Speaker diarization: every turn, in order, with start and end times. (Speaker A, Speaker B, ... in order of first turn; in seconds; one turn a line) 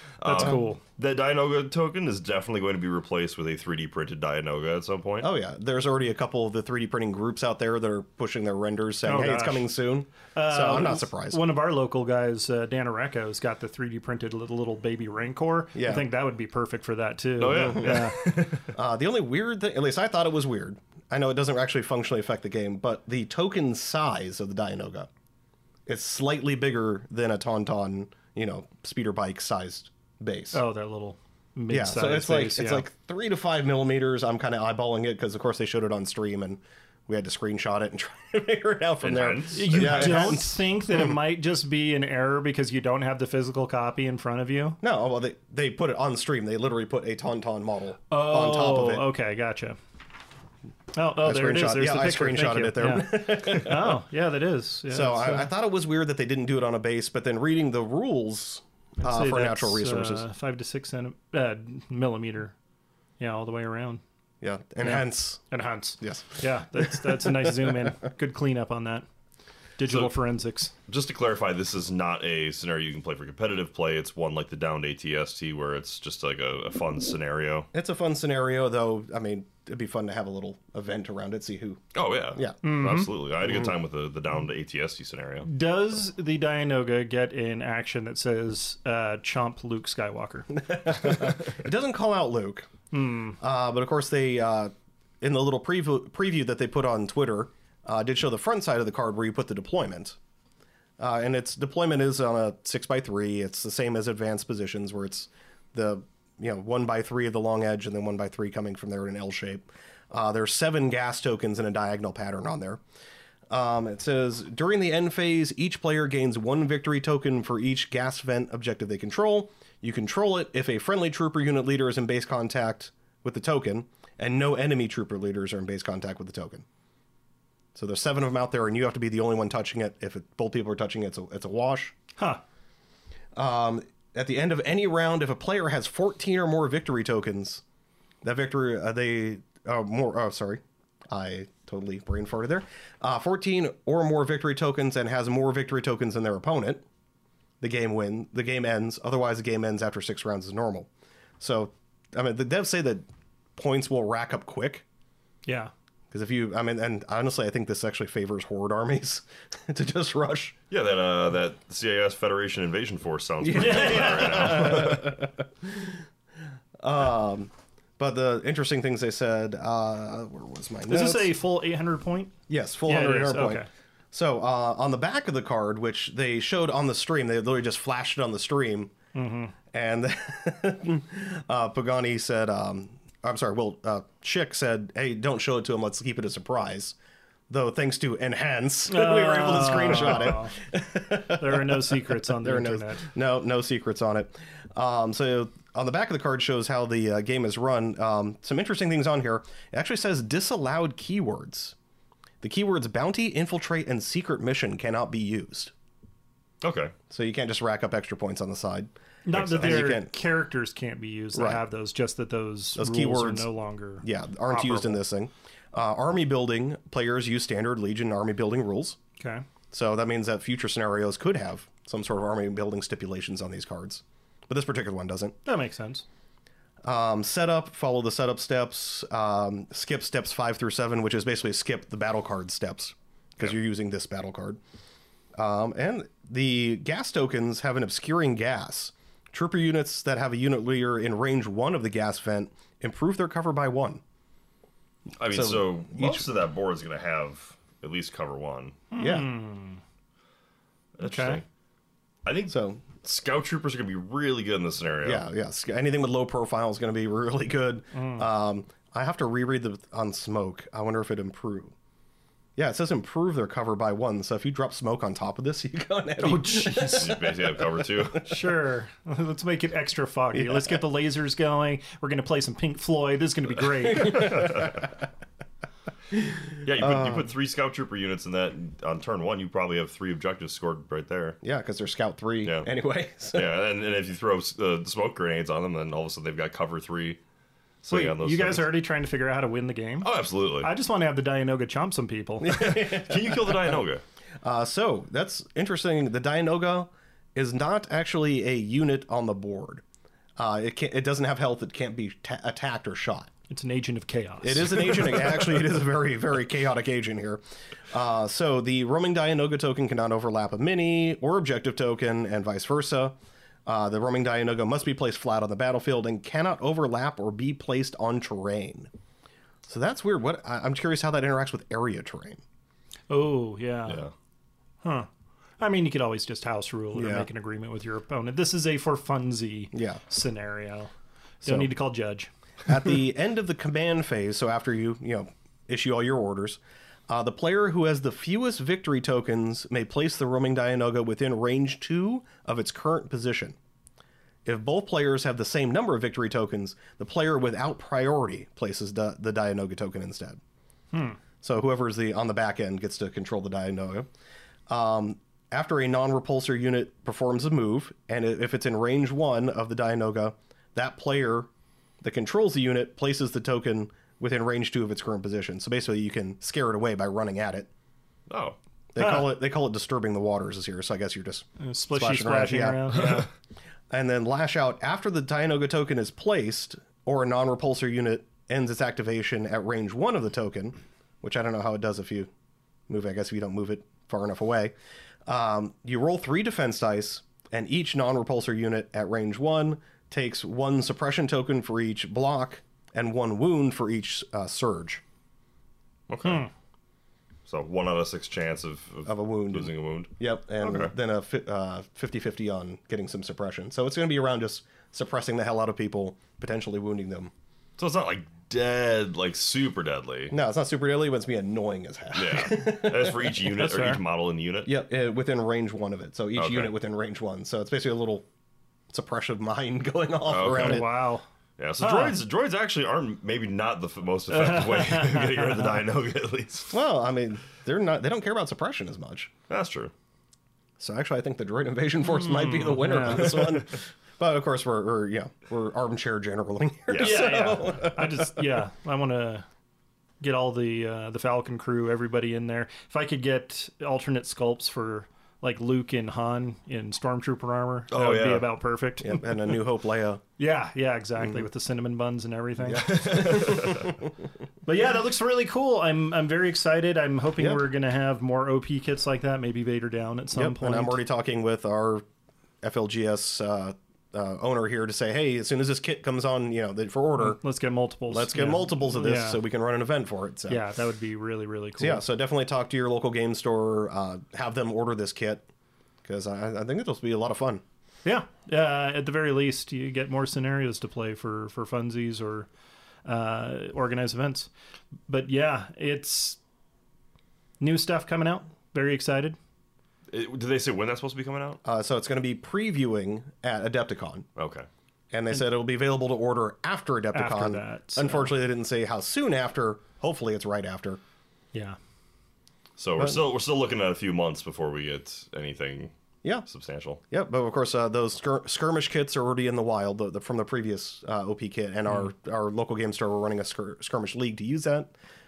Speaker A: 0.2-5.3
Speaker B: 0.2-0.8
Speaker C: 5.2-11.4
Speaker B: 9.0-9.7
Speaker B: 10.3-18.2
Speaker C: 15.8-16.1
Speaker A: 17.4-18.7
Speaker C: 18.7-25.1
Speaker C: 25.9-30.6
Speaker B: 30.5-32.9
Speaker C: 31.7-41.1
Speaker A: 39.0-40.4
Speaker B: 39.5-44.8
Speaker C: 44.8-49.1
Speaker B: 48.1-49.8
Speaker B: 50.9-55.5
Speaker C: 51.2-54.0
Speaker C: 54.9-60.3
Speaker B: 59.0-62.5
Speaker B: 63.2-64.0
Speaker C: 64.4-65.4
Speaker B: 64.8-69.1
Speaker C: 66.0-67.9
Speaker B: 69.8-70.7
Speaker A: 70.9-77.7
Speaker C: 77.7-82.6
Speaker A: 81.9-85.5
Speaker B: 82.6-83.1
Speaker B: 85.5-90.5
Speaker C: 90.5-92.7
Speaker B: 92.9-93.4
Speaker C: 93.4-100.2
Speaker C: 101.0-112.8
Speaker C: 113.5-126.7
Speaker C: 127.8-131.9
Speaker C: 133.3-137.6
Speaker C: 138.2-146.8
Speaker C: 147.6-150.9
Speaker C: 151.4-153.1
Speaker C: 153.6-154.8
Speaker B: 155.4-155.7
Speaker C: 156.1-160.6
Speaker A: 160.7-165.2
Speaker C: 163.4-166.0
Speaker B: 163.5-164.8
Speaker C: 166.8-171.3
Speaker B: 170.9-172.3
Speaker C: 172.5-178.9
Speaker B: 172.9-173.7
Speaker B: 179.1-179.5
Speaker C: 179.7-186.9
Speaker C: 187.5-201.8
Speaker B: 188.9-190.6
Speaker B: 191.3-193.1
Speaker C: 202.4-205.7
Speaker A: 206.6-206.9
Speaker C: 207.1-210.1
Speaker B: 209.2-215.0
Speaker A: 209.3-209.9
Speaker C: 211.3-211.6
Speaker C: 212.8-213.5
Speaker C: 214.0-219.0
Speaker B: 219.2-219.4
Speaker C: 219.7-225.4
Speaker B: 225.4-226.0
Speaker C: 226.8-234.6
Speaker C: 235.4-244.0
Speaker A: 245.2-248.8
Speaker C: 245.3-246.3
Speaker B: 248.9-249.8
Speaker C: 249.0-249.3
Speaker A: 251.0-251.4
Speaker B: 251.0-251.4
Speaker A: 252.2-255.2
Speaker C: 252.5-252.8
Speaker C: 255.0-261.7
Speaker B: 257.9-258.3
Speaker C: 262.6-267.9
Speaker B: 266.2-267.1
Speaker A: 267.0-268.3
Speaker B: 268.2-274.6
Speaker C: 270.3-270.8
Speaker C: 273.9-274.9
Speaker A: 274.1-274.8
Speaker C: 276.1-277.3
Speaker A: 276.6-281.4
Speaker C: 281.4-283.5
Speaker A: 283.3-287.2
Speaker A: 287.8-288.8
Speaker B: 287.9-290.1
Speaker A: 290.0-290.7
Speaker B: 290.6-292.6
Speaker C: 292.4-293.8
Speaker A: 292.5-294.0
Speaker C: 294.4-299.8
Speaker C: 300.4-303.3
Speaker B: 303.5-305.3
Speaker C: 304.4-318.9
Speaker C: 319.6-322.4
Speaker B: 323.1-324.1
Speaker B: 324.8-325.1
Speaker B: 325.6-332.3
Speaker C: 326.9-327.3
Speaker C: 329.7-330.0
Speaker C: 331.4-331.7
Speaker C: 332.6-343.6
Speaker C: 344.4-350.4
Speaker B: 350.9-351.2
Speaker C: 351.4-354.1
Speaker C: 354.7-361.5
Speaker C: 362.0-367.7
Speaker A: 368.3-368.6
Speaker C: 368.9-373.1
Speaker B: 369.0-369.3
Speaker B: 371.6-373.3
Speaker C: 373.9-382.3
Speaker C: 382.9-384.7
Speaker C: 385.3-395.0
Speaker A: 396.1-396.5
Speaker B: 396.2-396.5
Speaker A: 397.5-400.1
Speaker C: 399.1-407.3
Speaker A: 400.6-400.9
Speaker A: 407.8-410.3
Speaker C: 410.3-413.6
Speaker A: 412.1-414.7
Speaker B: 413.6-414.0
Speaker C: 414.6-418.3
Speaker A: 416.4-416.7
Speaker C: 418.9-420.9
Speaker A: 420.3-420.9
Speaker B: 420.5-421.3
Speaker A: 421.6-426.8
Speaker B: 421.8-422.2
Speaker B: 424.3-425.7
Speaker C: 426.7-429.3
Speaker A: 429.5-429.9
Speaker C: 430.8-438.3
Speaker B: 432.2-433.3
Speaker A: 436.9-437.3
Speaker B: 437.0-439.5
Speaker B: 440.2-449.3
Speaker A: 447.9-448.5
Speaker C: 449.0-450.2
Speaker B: 450.4-453.1
Speaker C: 452.6-454.1
Speaker A: 452.8-453.9
Speaker B: 454.6-461.0
Speaker C: 460.3-462.1
Speaker C: 462.6-467.4
Speaker B: 467.2-469.4
Speaker C: 468.1-470.6
Speaker B: 470.5-472.0
Speaker C: 471.8-475.5
Speaker C: 476.0-477.6
Speaker B: 478.1-482.5
Speaker B: 483.1-484.5
Speaker B: 485.1-486.4
Speaker B: 487.6-489.4
Speaker A: 490.1-491.6
Speaker C: 491.6-494.3
Speaker A: 494.4-494.7
Speaker C: 495.1-501.0
Speaker B: 497.1-498.3
Speaker A: 502.8-505.9
Speaker A: 506.5-507.0
Speaker C: 507.1-514.9